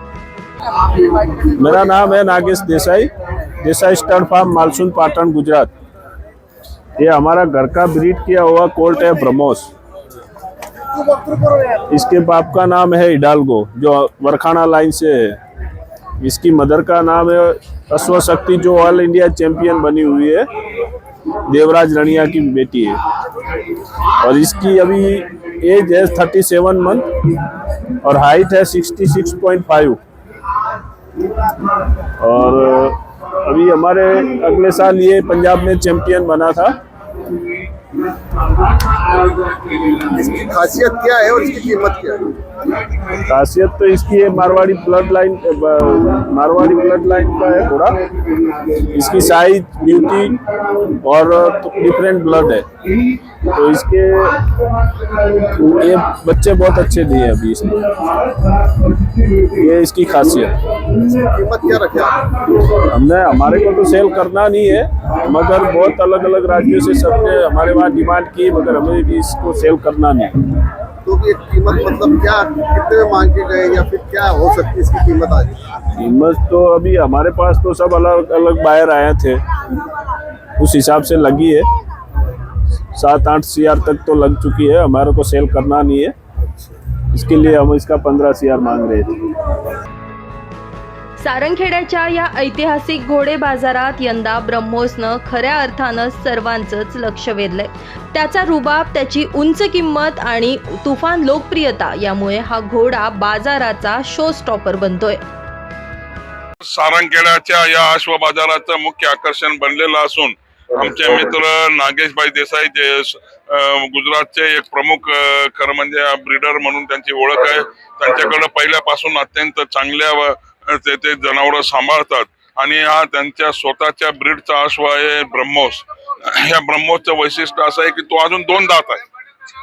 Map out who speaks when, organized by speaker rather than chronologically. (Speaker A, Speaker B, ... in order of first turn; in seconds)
Speaker A: 0.8-5.7, 7.0-9.7, 11.6-15.4, 16.2-20.5, 21.5-23.0, 24.1-27.3, 28.0-30.0, 32.1-36.8, 43.2-48.1, 48.8-52.7, 53.4-54.5, 55.5-58.1, 59.5-60.9, 62.7-70.5, 76.0-79.4, 80.6-81.7, 82.9-86.2, 87.1-89.4
Speaker B: 40.1-42.2, 61.1-62.2, 71.0-75.8
Speaker C: 91.2-105.2
Speaker D: 106.6-129.0